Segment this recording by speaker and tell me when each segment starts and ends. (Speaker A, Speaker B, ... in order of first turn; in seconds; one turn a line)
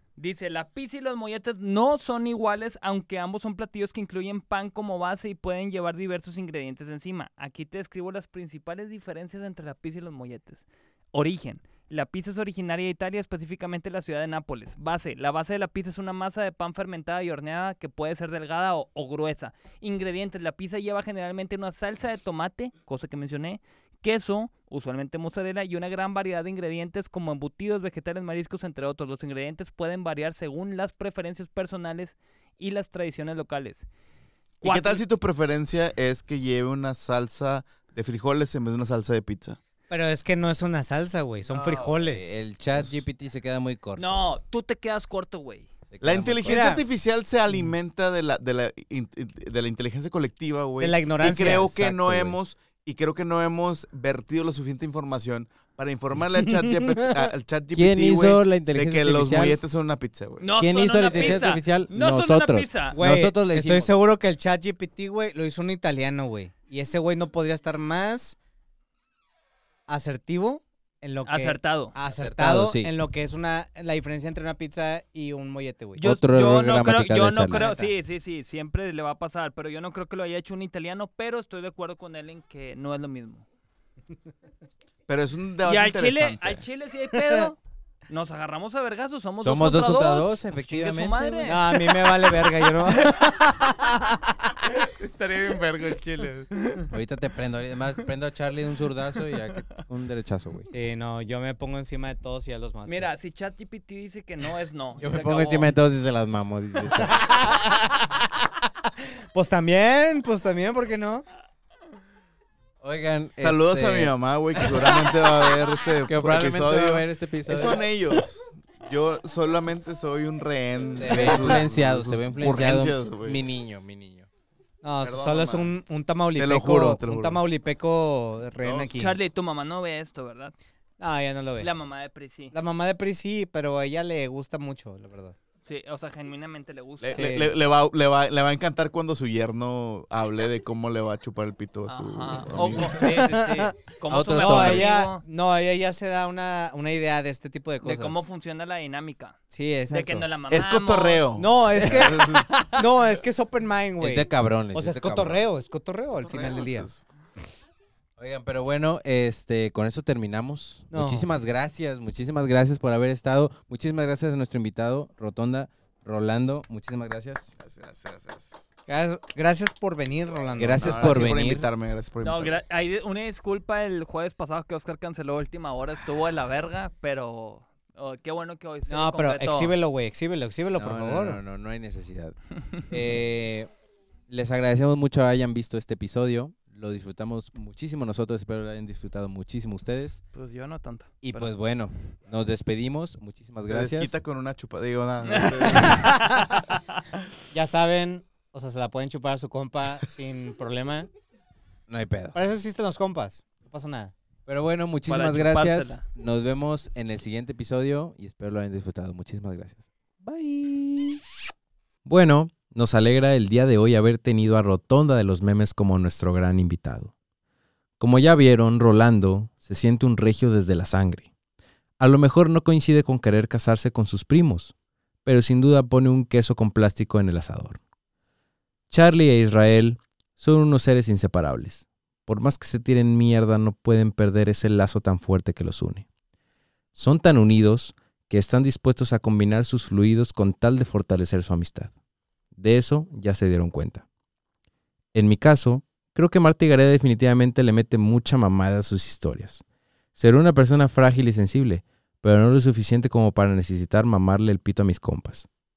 Speaker A: 0.2-33.9
Speaker A: 34.6-35.0
Speaker B: 34.6-39.6
Speaker C: 39.9-42.4
Speaker D: 41.5-44.3
Speaker A: 44.0-45.7
Speaker D: 45.9-46.7
Speaker B: 46.0-60.5
Speaker C: 46.5-46.9
Speaker C: 50.8-52.4
Speaker D: 57.7-59.6
Speaker A: 60.4-63.0
Speaker D: 60.5-63.9
Speaker C: 63.0-68.4
Speaker C: 69.9-76.0
Speaker A: 71.3-71.9
Speaker D: 72.1-72.9
Speaker A: 76.0-83.4
Speaker D: 76.0-77.7
Speaker C: 77.5-77.9
Speaker B: 85.1-86.7
Speaker A: 85.6-87.6
Speaker C: 87.2-87.5
Speaker A: 88.1-93.7
Speaker D: 89.4-91.5
Speaker C: 91.4-94.5
Speaker A: 94.6-96.9
Speaker D: 96.9-100.7
Speaker C: 100.7-103.1
Speaker A: 102.9-105.7
Speaker D: 105.0-107.5
Speaker C: 107.1-111.2
Speaker D: 112.8-115.1
Speaker B: 113.4-123.4
Speaker D: 116.0-117.8
Speaker D: 120.9-124.3
Speaker C: 124.8-129.2
Speaker B: 125.0-125.8
Speaker B: 126.3-127.4
Speaker B: 128.6-129.0
Speaker A: 128.9-130.5
Speaker C: 131.0-131.7
Speaker A: 131.6-132.5
Speaker C: 132.5-135.4
Speaker A: 135.7-137.5
Speaker B: 137.0-143.2
Speaker C: 137.1-137.5
Speaker A: 141.9-145.2
Speaker C: 142.7-143.8
Speaker D: 144.1-144.9
Speaker C: 144.4-148.2
Speaker A: 147.8-151.3
Speaker C: 149.5-150.3
Speaker B: 150.5-152.6
Speaker C: 151.4-156.9
Speaker D: 151.8-152.1
Speaker D: 154.0-155.4
Speaker B: 156.2-157.0
Speaker D: 158.2-167.5
Speaker C: 160.9-161.3
Speaker B: 167.6-168.7
Speaker C: 168.9-171.5
Speaker D: 170.6-171.7
Speaker B: 170.7-172.6
Speaker A: 172.2-179.8
Speaker C: 178.9-181.4
Speaker D: 180.7-183.7
Speaker D: 184.3-190.2
Speaker A: 190.3-191.6
Speaker D: 191.2-194.2
Speaker B: 193.7-196.3
Speaker A: 195.2-197.0
Speaker C: 195.8-196.5
Speaker C: 197.5-201.1
Speaker D: 201.9-202.4
Speaker C: 202.3-204.1
Speaker D: 204.5-211.2
Speaker A: 205.1-206.0
Speaker D: 212.1-217.1
Speaker D: 218.0-221.3
Speaker D: 222.0-224.7
Speaker D: 225.2-227.8
Speaker D: 228.9-236.1
Speaker D: 236.9-241.9
Speaker D: 242.6-244.0
Speaker D: 245.1-249.6
Speaker D: 250.2-255.5